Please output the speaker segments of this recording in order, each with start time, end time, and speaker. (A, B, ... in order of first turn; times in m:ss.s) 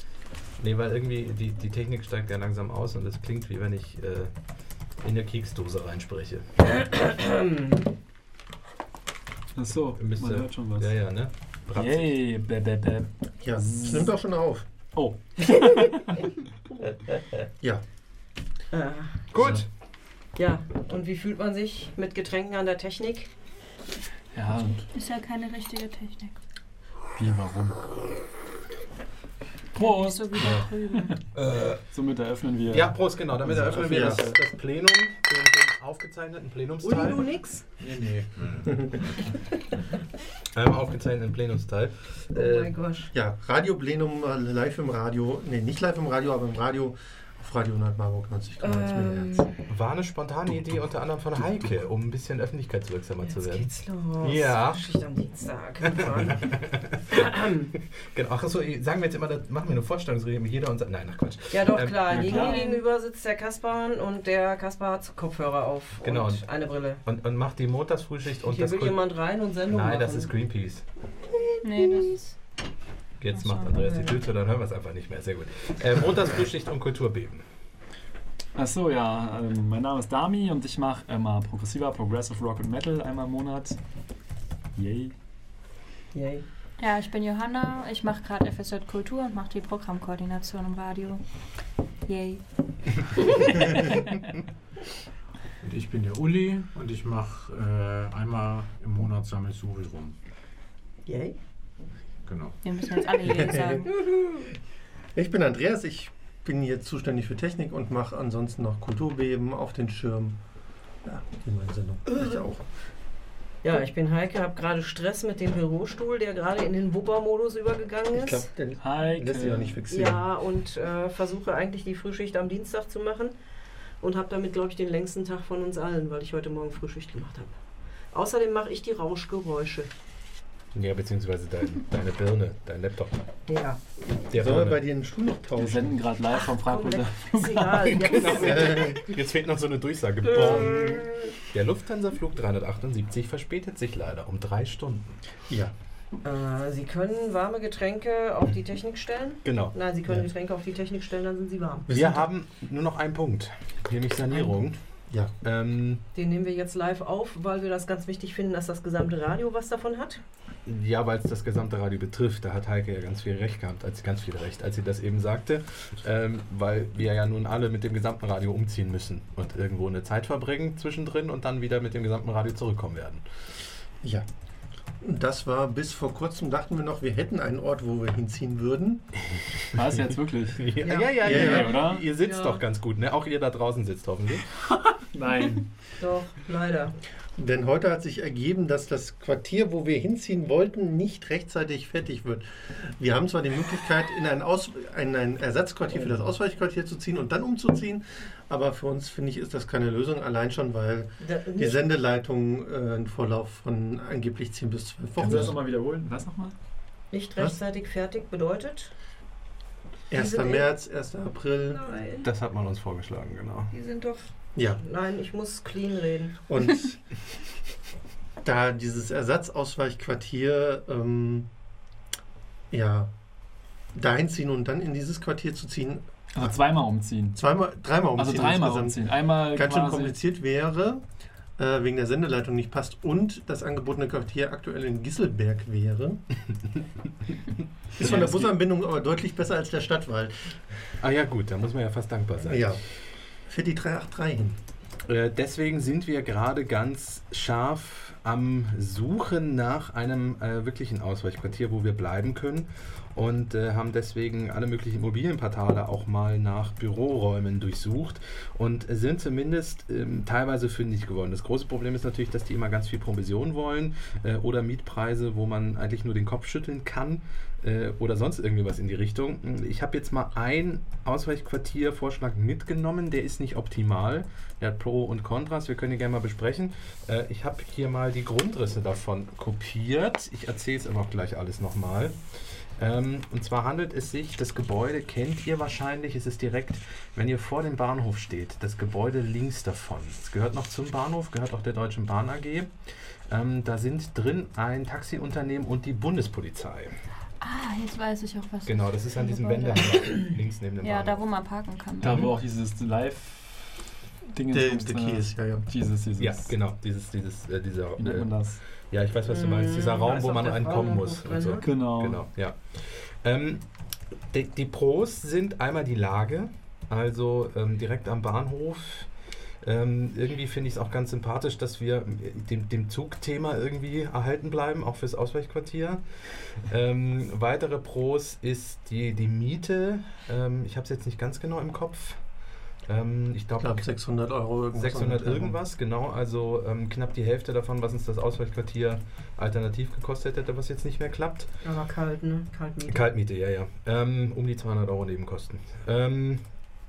0:00.6-0:04.3 A
0:05.0-0:06.5 A
0:06.7-0:07.8 B
0:09.6-0:10.9 C
0:10.0-0:12.1 A
0:11.7-0:14.1 C
0:13.4-0:14.6 D
0:15.0-0:16.3 C
0:18.7-0:19.3 B
0:19.3-0:19.7 A
0:20.4-0:23.3 B
0:24.3-0:24.9 C
0:24.9-0:26.4 E
0:27.2-0:27.9 C
0:29.7-0:31.2 E
0:29.7-0:34.4 C
0:31.3-0:31.8 A
0:32.7-0:37.2 A
0:33.7-0:34.2 D
0:36.8-0:37.6 B
0:37.8-0:39.3 F
0:40.5-0:42.7 A
0:42.3-0:43.1 B
0:43.1-0:49.4 D
0:48.6-0:49.5 B
0:49.7-0:53.7 A
0:53.2-0:56.5 B
0:54.2-0:54.8 A
0:55.8-0:57.0 A
0:57.1-0:57.7 B
0:58.0-1:02.3 A
1:01.5-1:07.0 B
1:02.1-1:02.6 C
1:02.2-1:02.8 E
1:06.0-1:06.4 A
1:07.0-1:09.0 A
1:08.5-1:10.3 B
1:09.7-1:10.8 A
1:11.5-1:12.2 B
1:11.6-1:12.3 E
1:13.2-1:17.4 A
1:13.3-1:13.7 E
1:13.7-1:14.2 B
1:18.6-1:23.8 C
1:24.8-1:25.1 C
1:26.1-1:26.4 B
1:26.8-1:31.2 E
1:32.0-1:32.4 E
1:32.9-1:34.2 E
1:35.6-1:40.2 F
1:41.1-1:41.4 B
1:42.2-1:42.6 F
1:42.6-1:43.9 E
1:43.2-1:44.1 D
1:45.2-1:50.4 D
1:51.0-1:52.6 D
1:53.6-1:58.4 B
1:58.1-2:00.2 D
1:58.8-1:59.8 C
1:59.9-2:03.3 B
2:04.0-2:07.6 B
2:08.1-2:09.9 B
2:10.8-2:13.2 A
2:13.5-2:13.8 B
2:14.3-2:14.8 A
2:14.3-2:16.0 D
2:15.6-2:18.2 C
2:16.5-2:19.0 B
2:17.9-2:25.2 A
2:18.4-2:19.0 D
2:20.2-2:21.4 B
2:26.2-2:31.9 B
2:29.4-2:29.8 A
2:31.9-2:32.2 D
2:31.9-2:34.8 A
2:35.4-2:36.0 A
2:36.1-2:40.2 B
2:40.7-2:53.2 A
2:55.0-2:59.1 D
2:59.4-2:59.8 A
2:59.7-3:02.1 C
3:00.5-3:04.5 A
3:00.8-3:02.6 B
3:01.3-3:01.7 D
3:05.1-3:05.7 C
3:06.0-3:07.0 B
3:07.4-3:25.6 D
3:21.2-3:21.9 B
3:25.2-3:26.5 C
3:27.1-3:28.9 B
3:30.1-3:31.8 D
3:30.1-3:30.7 B
3:31.7-3:32.3 B
3:32.2-3:33.7 A
3:33.7-3:36.4 B
3:36.5-3:37.0 D
3:38.4-3:41.5 D
3:42.7-3:43.1 D
3:43.9-3:46.5 D
3:46.3-3:47.4 C
3:47.4-3:51.0 D
3:48.2-3:50.2 C
3:51.6-3:56.2 D
3:58.0-4:00.6 D
3:58.0-3:58.6 C
4:01.0-4:02.8 A
4:02.4-4:02.8 D
4:03.5-4:04.6 D
4:05.0-4:52.7 A
4:53.3-4:57.0 A
4:57.4-5:02.4 E
4:58.6-5:01.2 A
5:02.0-5:03.8 C
5:04.3-5:06.5 C
5:04.5-5:05.6 D
5:06.2-5:08.3 A
5:08.0-5:08.6 C
5:08.9-5:13.6 A
5:09.3-5:11.6 B
5:11.6-5:12.2 C
5:14.3-5:19.1 A
5:19.6-5:32.2 A
5:32.8-5:33.9 A
5:33.6-5:35.6 D
5:34.7-5:41.5 A
5:41.6-5:43.0 B
5:42.9-5:46.4 A